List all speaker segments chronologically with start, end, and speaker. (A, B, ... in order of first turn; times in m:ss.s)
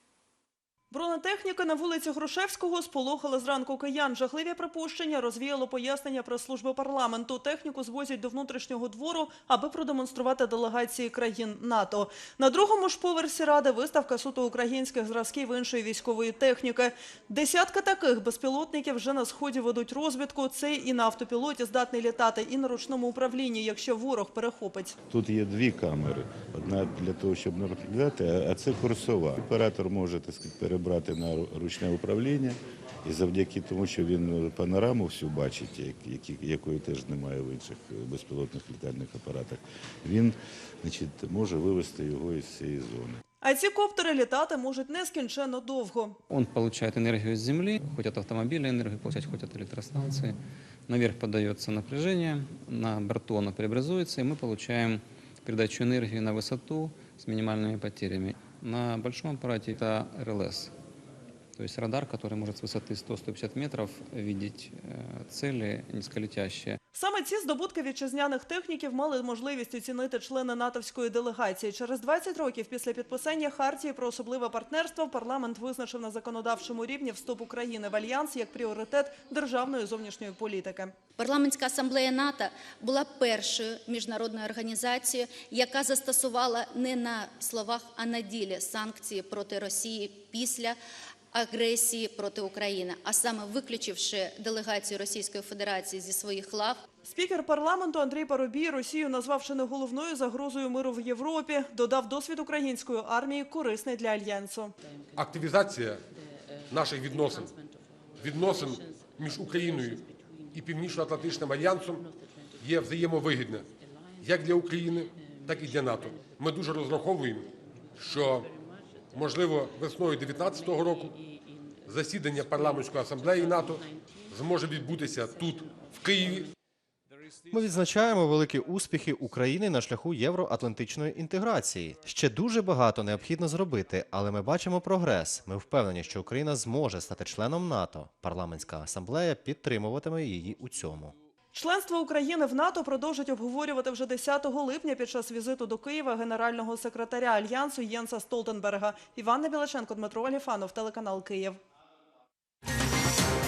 0:00.9-0:25.0 A
0:25.1-0:43.2 B
0:43.4-0:46.2 A
0:46.3-0:50.4 C
0:50.9-1:00.7 C
1:01.6-1:06.8 C
1:06.9-1:21.0 A
1:21.2-1:30.8 D
1:31.3-1:36.8 D
1:37.0-1:44.7 A
1:45.2-1:46.0 E
1:46.7-1:47.5 E
1:48.2-1:52.0 E
1:52.6-1:53.7 E
1:54.2-1:58.5 E
1:59.1-2:01.1 E
2:01.8-2:06.5 E
2:07.5-2:21.1 F
2:21.5-2:31.6 A